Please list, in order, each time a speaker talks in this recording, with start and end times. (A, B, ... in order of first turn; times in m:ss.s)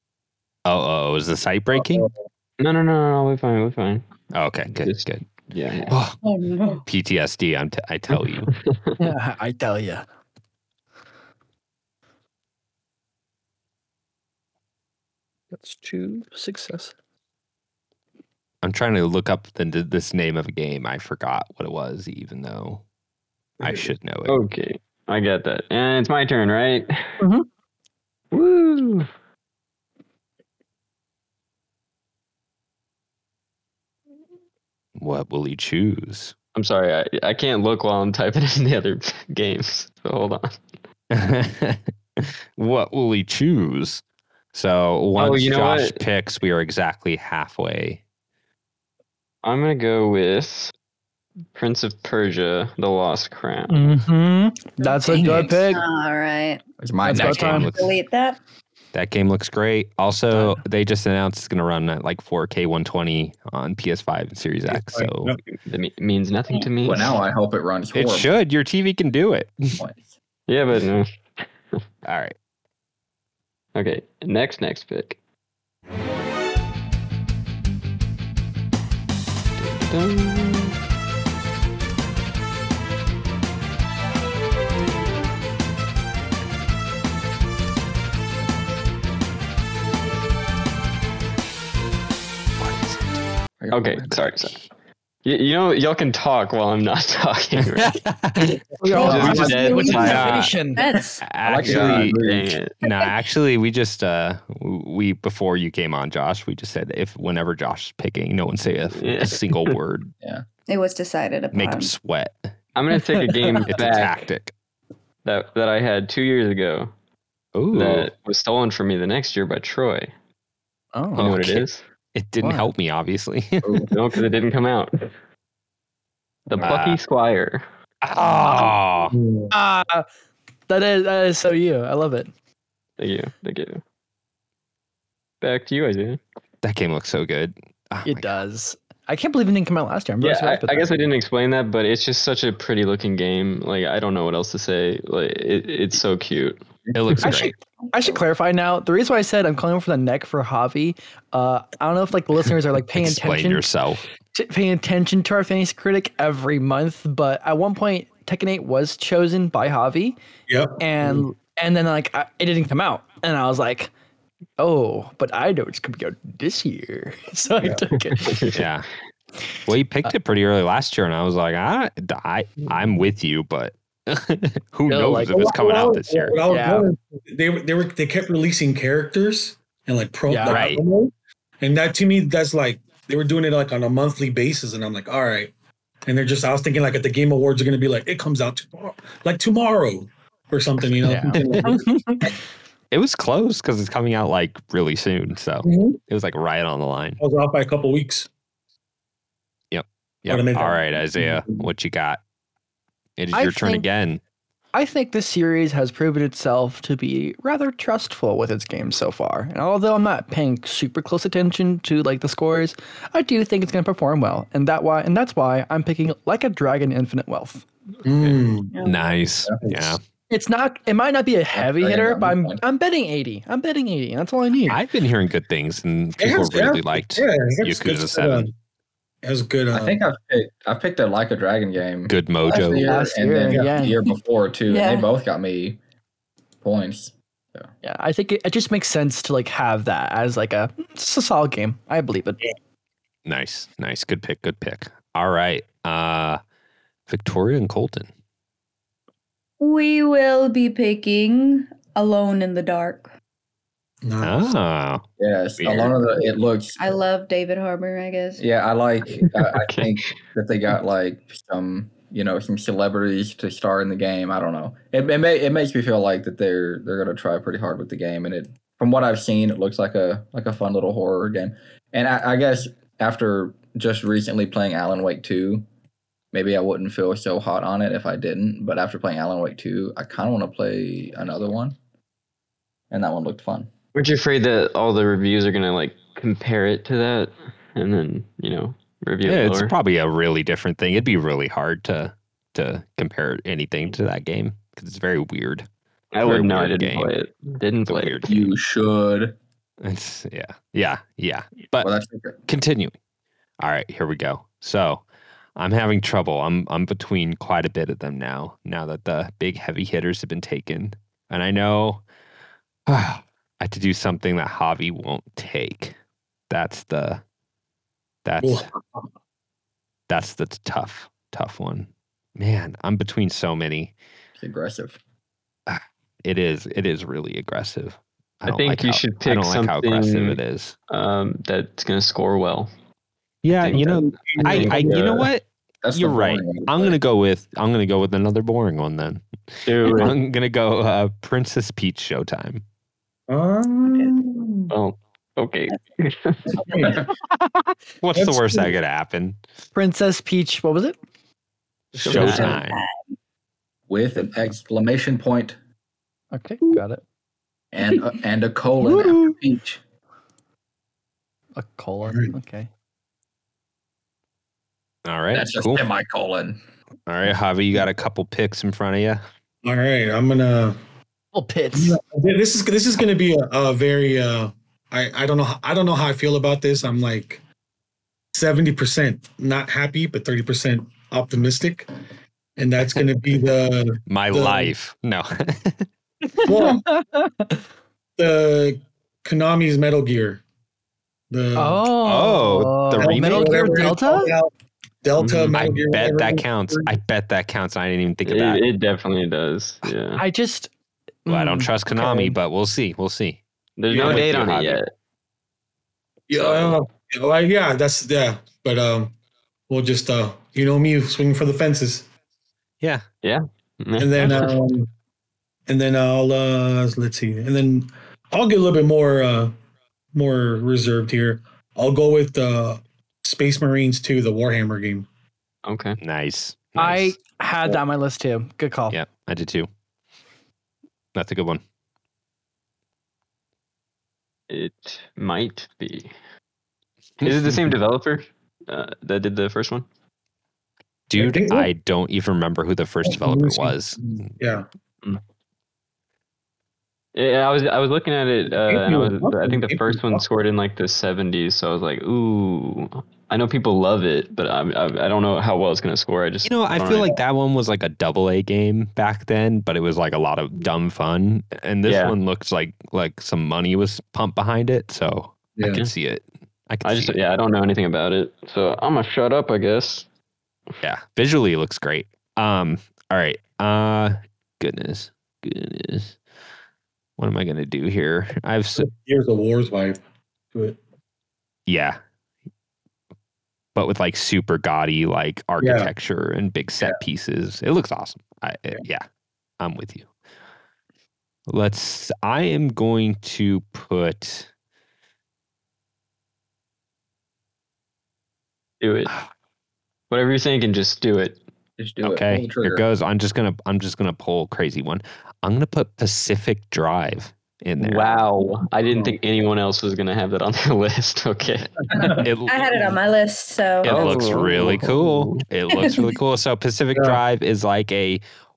0:00.6-0:02.1 A
0:02.6-0:04.0 B
0:04.3-0:05.2 A
0:04.7-0:06.0 B
0:05.9-0:06.2 A
0:06.2-0:06.8 C
0:06.8-0:08.5 A
0:08.5-0:08.9 B
0:09.0-0:10.0 D
0:15.5-0:16.9 D
0:18.6-0:22.8 A
0:23.6-0:24.4 A
0:24.2-0:27.2 B
0:27.2-0:27.4 D
0:28.3-0:29.1 B
0:35.0-0:36.3 A
0:36.5-0:40.6 B
0:41.1-0:44.0 A
0:44.5-0:48.0 A
0:45.2-0:46.0 B
0:49.4-0:50.7 B
0:51.5-0:53.9 B
0:53.7-0:55.8 D
0:54.8-0:56.6 C
0:56.8-0:57.7 E
0:57.0-0:57.7 D
0:57.2-0:57.9 A
0:57.4-0:58.4 C
0:58.9-1:05.3 A
1:00.3-1:00.6 D
1:04.7-1:05.4 F
1:05.6-1:07.2 B
1:06.8-1:08.3 E
1:07.9-1:09.8 A
1:09.8-1:10.1 E
1:10.5-1:11.8 B
1:12.0-1:12.4 A
1:13.7-1:15.2 B
1:19.6-1:20.8 B
1:32.6-1:33.2 A
1:33.6-1:34.1 E
1:33.7-1:34.5 B
1:34.1-1:34.6 A
1:35.2-1:38.0 B
1:37.6-1:38.6 A
1:38.8-1:40.9 D
1:39.0-1:40.4 B
1:39.0-1:41.2 C
1:39.0-1:40.0 E
1:40.0-1:40.5 A
1:41.2-1:42.2 A
1:41.4-1:42.6 E
1:41.6-1:42.7 B
1:42.8-1:50.1 A
1:48.9-1:49.8 B
1:50.7-1:51.9 C
1:51.5-1:52.5 A
1:52.8-1:54.2 B
1:53.7-1:54.5 A
1:55.2-1:56.9 B
1:57.5-1:58.1 A
1:57.7-2:00.1 B
2:00.9-2:01.3 D
2:01.2-2:01.8 B
2:01.2-2:03.9 A
2:02.4-2:02.7 D
2:03.6-2:03.9 E
2:03.9-2:05.1 B
2:06.5-2:07.6 B
2:06.6-2:07.0 A
2:08.0-2:09.1 A
2:09.1-2:09.5 F
2:09.5-2:10.0 D
2:10.7-2:12.3 D
2:13.0-2:13.8 B
2:15.4-2:16.2 B
2:16.6-2:18.3 A
2:18.0-2:21.0 D
2:20.2-2:27.2 B
2:26.9-2:27.5 A
2:27.2-2:33.7 D
2:32.9-2:34.0 A
2:34.3-2:40.2 D
2:40.5-2:41.2 F
2:40.8-2:43.9 D
2:44.6-2:48.5 D
2:48.2-2:48.6 B
2:48.5-2:48.9 A
2:49.7-2:56.4 A
2:54.9-2:55.6 D
2:55.3-3:05.5 F
2:56.4-2:56.9 D
3:00.3-3:00.6 D
3:00.5-3:00.8 A
3:06.0-3:11.8 F
3:11.1-3:12.4 D
3:12.9-3:17.2 A
3:15.6-3:16.0 F
3:17.2-3:18.3 F
3:19.7-3:22.2 A
3:20.3-3:21.6 F
3:23.2-3:24.2 A
3:23.3-3:23.8 D
3:24.7-3:37.6 D
3:38.0-3:38.7 F
3:38.7-3:39.1 C
3:38.8-3:40.0 A
3:39.6-3:40.0 F
3:40.3-3:44.8 D
3:41.5-3:42.6 E
3:44.7-3:48.5 A
3:46.2-3:48.5 F
3:49.2-3:50.0 F
3:49.7-3:55.8 E
3:52.1-3:52.9 A
3:52.8-3:54.0 D
3:54.7-3:55.1 C
3:56.6-3:57.7 E
3:57.8-4:02.4 D
4:03.2-4:06.4 A
4:07.1-4:08.1 A
4:09.6-4:13.1 C
4:14.0-4:14.6 F
4:14.2-4:15.0 A
4:15.2-4:17.0 E
4:15.6-4:15.9 A
4:16.8-4:18.4 C
4:18.4-4:35.6 E
4:19.2-4:19.9 B
4:36.3-4:41.8 E
4:42.9-4:43.7 E
4:43.9-4:49.7 B
4:49.2-4:55.7 A
4:56.1-4:58.4 B
4:56.2-4:57.1 A
4:57.9-4:58.5 A
4:58.3-4:59.4 E
4:59.8-5:01.9 A
5:01.8-5:02.4 E
5:02.5-5:02.9 A
5:03.6-5:05.0 A
5:05.6-5:12.0 A
5:12.9-5:16.0 A
5:16.5-5:17.2 A
5:18.2-5:18.7 A
5:18.4-5:19.0 F
5:20.1-5:23.9 A
5:24.4-5:25.0 E
5:25.7-5:30.7 A
5:28.4-5:30.4 B
5:30.9-5:32.7 B
5:33.4-5:42.6 A
5:33.6-5:35.3 B
5:33.7-5:35.3 F
5:35.8-5:37.0 E
5:39.6-5:40.2 B
5:43.3-5:44.7 F
5:44.7-5:46.6 B
5:46.6-5:47.0 F
5:47.5-5:49.4 A
5:48.1-5:48.7 F
5:49.7-5:51.0 D
5:52.0-5:52.6 B
5:52.0-5:52.8 A
5:52.2-5:52.9 C
5:53.9-5:55.6 E
5:56.3-5:57.0 D
5:57.7-5:59.8 E
5:58.8-5:59.3 D
6:01.6-6:02.7 D
6:02.1-6:02.3 F
6:05.0-6:05.9 A
6:05.3-6:06.6 E
6:07.1-6:09.2 A
6:09.6-6:10.8 F
6:11.3-6:12.0 D
6:11.7-6:17.4 F
6:18.3-6:21.9 F
6:22.6-6:24.7 F
6:24.1-6:25.9 A
6:26.4-6:27.6 D
6:26.4-6:26.8 F
6:28.2-6:30.4 F
6:31.3-6:31.8 F
6:31.6-6:34.3 D
6:32.0-6:33.8 A
6:33.0-6:34.5 F
6:35.0-6:36.9 F
6:35.2-6:35.6 B
6:35.5-6:38.6 A
6:38.2-6:40.2 B
6:40.2-6:40.7 D
6:41.2-6:42.4 D
6:41.3-6:43.4 A
6:43.8-6:44.9 B
6:43.9-6:44.3 F
6:43.9-6:44.8 A
6:46.3-6:49.1 F
6:46.4-6:46.7 A
6:49.7-6:52.1 F
6:53.2-6:54.6 B
6:54.0-6:54.9 F
6:55.7-6:59.6 F
7:00.1-7:05.1 F
7:05.6-7:06.0 B
7:06.0-7:07.2 A
7:06.8-7:09.0 D
7:08.9-7:09.7 A
7:11.1-7:11.6 A
7:14.5-7:16.1 B
7:17.2-7:17.5 A
7:17.2-7:19.8 B
7:21.1-7:24.0 A
7:21.1-7:21.7 F
7:23.0-7:24.7 F
7:27.1-7:37.2 B
7:28.6-7:30.2 F
7:36.4-7:47.2 A
7:41.8-7:42.1 B
7:46.8-7:50.0 B
7:50.8-7:56.2 A
7:57.2-7:58.9 A
7:58.8-8:00.0 F
8:00.5-8:00.8 F
8:01.7-8:02.0 A
8:03.7-8:09.0 A
8:05.6-8:05.9 F
8:09.6-8:10.1 A
8:11.5-8:14.5 A
8:18.8-8:19.1 B
8:20.1-8:21.4 B
8:21.8-8:22.8 E
8:22.0-8:28.2 A
8:27.8-8:31.8 B
8:28.9-8:29.1 F
8:31.9-8:32.2 F
8:32.0-8:34.3 C
8:32.2-8:33.0 A
8:33.8-8:38.2 A
8:33.8-8:35.4 B
8:35.7-8:36.1 C
8:36.9-8:37.2 F